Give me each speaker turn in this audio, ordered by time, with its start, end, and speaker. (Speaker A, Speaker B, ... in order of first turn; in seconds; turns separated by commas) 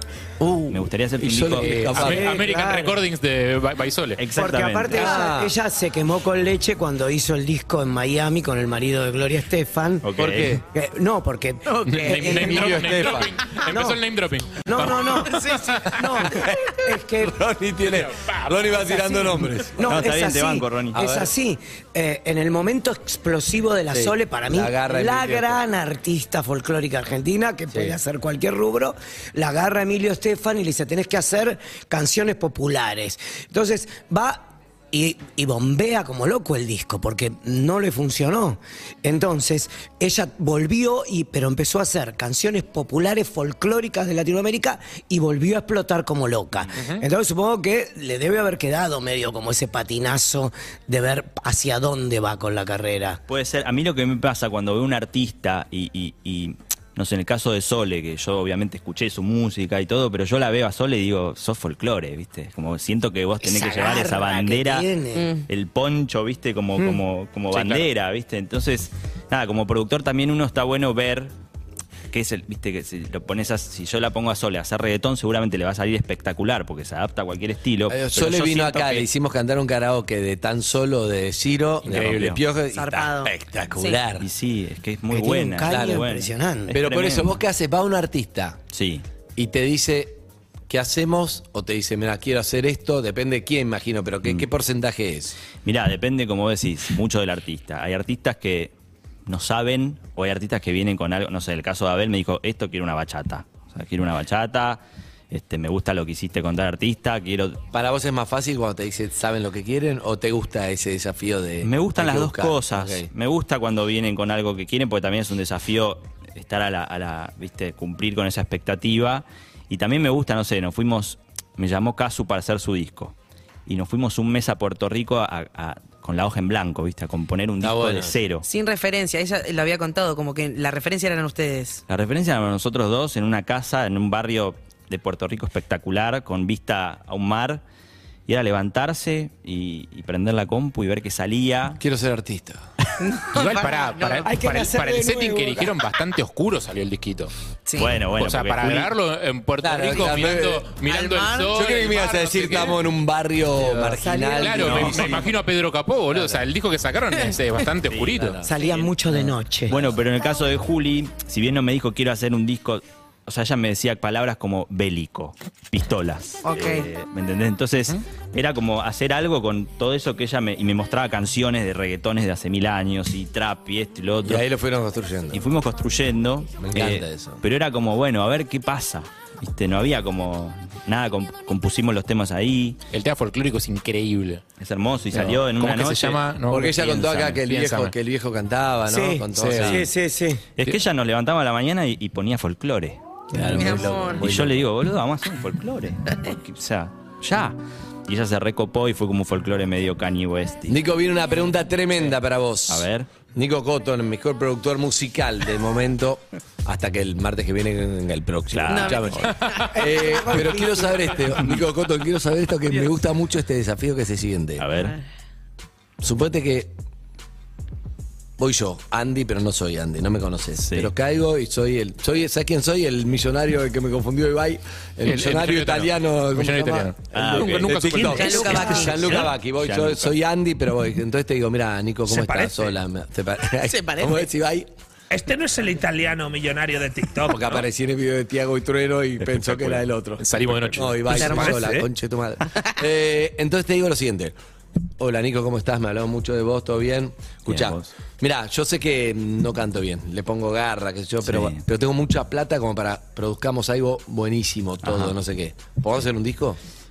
Speaker A: 0.4-2.4, Speaker B: 0.7-2.1, Speaker C: 1.6-4.2, Speaker D: 2.0-3.0, Speaker B: 4.2-5.2, Speaker D: 4.3-12.9, Speaker A: 4.9-5.5, Speaker B: 10.0-10.6, Speaker A: 10.2-10.6, Speaker C: 11.8-16.0, Speaker A: 12.2-13.4, Speaker D: 13.5-14.0, Speaker D: 14.6-17.4, Speaker A: 16.2-20.0, Speaker C: 18.0-18.7, Speaker D: 19.7-53.2, Speaker B: 19.8-21.0, Speaker A: 20.9-21.3, Speaker A: 23.9-25.6, Speaker A: 27.7-27.9, Speaker C: 46.7-47.0, Speaker B: 53.3-64.9, Speaker D: 63.4-65.3, Speaker E: 65.1-65.5, Speaker B: 65.5-71.3, Speaker A: 67.5-67.8, Speaker B: 72.1-79.1, Speaker A: 77.9-84.3, Speaker B: 81.8-82.4, Speaker C: 81.9-82.3, Speaker E: 82.7-84.0, Speaker B: 84.2-87.4, Speaker D: 85.1-86.8, Speaker A: 85.6-86.1, Speaker A: 86.7-88.6, Speaker B: 88.7-89.0, Speaker A: 89.3-95.3, Speaker B: 95.6-98.7, Speaker B: 99.3-107.6, Speaker A: 107.7-113.1, Speaker B: 111.6-123.1, Speaker B: 123.7-128.4, Speaker A: 127.6-128.2, Speaker E: 128.4-131.8, Speaker B: 131.9-137.6, Speaker B: 138.3-141.8, Speaker A: 141.8-142.6, Speaker E: 143.0-144.3, Speaker C: 143.3-147.3, Speaker D: 144.2-145.7, Speaker E: 147.7-148.0, Speaker B: 147.8-148.9, Speaker C: 148.1-152.8, Speaker A: 149.6-150.7, Speaker E: 150.8-151.6, Speaker A: 151.5-155.3, Speaker C: 153.6-158.4, Speaker D: 154.0-155.1, Speaker B: 154.7-154.9, Speaker A: 156.1-156.4, Speaker B: 157.9-158.4, Speaker A: 158.1-158.5, Speaker D: 158.4-159.8, Speaker B: 159.1-174.4, Speaker E: 166.4-166.9, Speaker A: 174.2-175.4, Speaker B: 175.3-182.8, Speaker A: 176.6-177.4, Speaker C: 182.9-184.4, Speaker B: 184.6-186.2, Speaker C: 185.1-187.9, Speaker A: 186.5-189.8, Speaker B: 186.9-187.4, Speaker D: 188.9-190.4, Speaker C: 189.3-189.8, Speaker B: 189.6-189.8, Speaker B: 190.6-193.0, Speaker A: 193.3-194.7, Speaker E: 193.4-194.3, Speaker B: 193.6-200.8, Speaker A: 200.7-214.7, Speaker B: 202.7-203.1, Speaker B: 208.5-209.3, Speaker E: 208.7-209.8, Speaker D: 209.7-211.2, Speaker B: 214.6-214.9, Speaker A: 216.0-216.7, Speaker A: 218.4-234.7, Speaker B: 220.6-220.9, Speaker C: 225.0-228.9, Speaker B: 227.1-230.1, Speaker E: 228.0-229.3, Speaker F: 232.1-232.7, Speaker E: 233.6-234.3, Speaker F: 235.1-237.5, Speaker A: 237.2-244.3, Speaker B: 239.2-239.9, Speaker C: 240.2-241.8, Speaker E: 241.1-241.7, Speaker A: 245.0-256.6, Speaker B: 247.5-247.9, Speaker B: 251.2-251.6, Speaker B: 254.8-255.2